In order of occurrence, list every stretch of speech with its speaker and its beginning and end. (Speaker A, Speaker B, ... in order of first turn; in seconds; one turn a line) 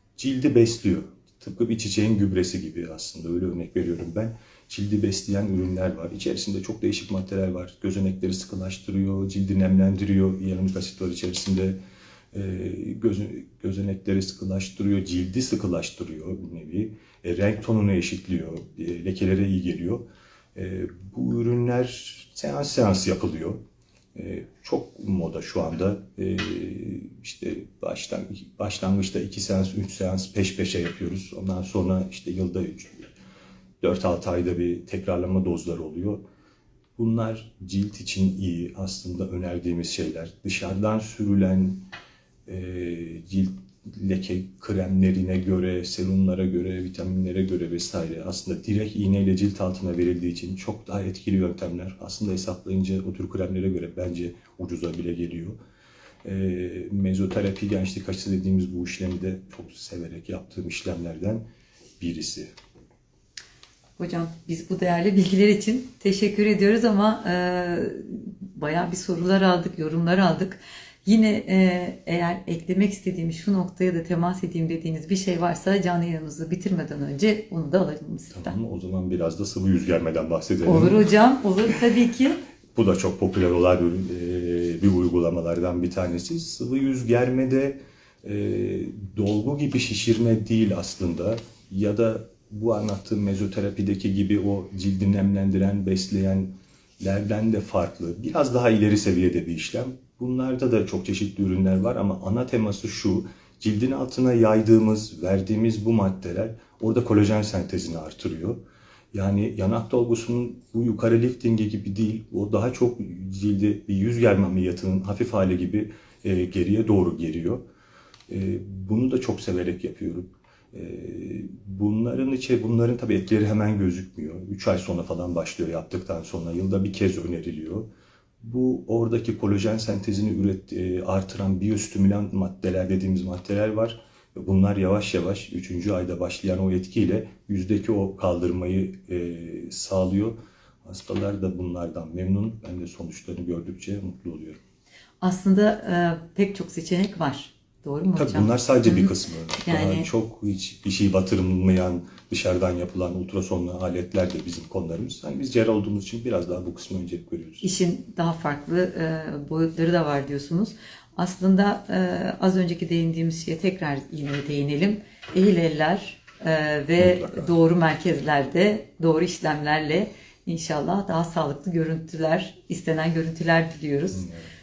Speaker A: 0.2-11.8
Speaker A: 12.3-20.0
Speaker A: 20.5-23.6
Speaker A: 24.1-33.1
Speaker A: 33.8-36.2
Speaker A: 37.0-41.9
Speaker A: 42.5-55.6
Speaker A: 56.2-61.4
Speaker A: 62.0-62.5
Speaker B: 64.0-78.5
Speaker A: 78.3-81.0
Speaker B: 80.6-82.4
Speaker A: 82.7-108.6
Speaker A: 109.1-117.6
Speaker A: 118.3-127.9
Speaker A: 128.4-144.6
Speaker B: 145.2-150.1
Speaker A: 148.1-157.7
Speaker B: 157.6-174.3
Speaker A: 167.0-167.5
Speaker A: 174.1-174.5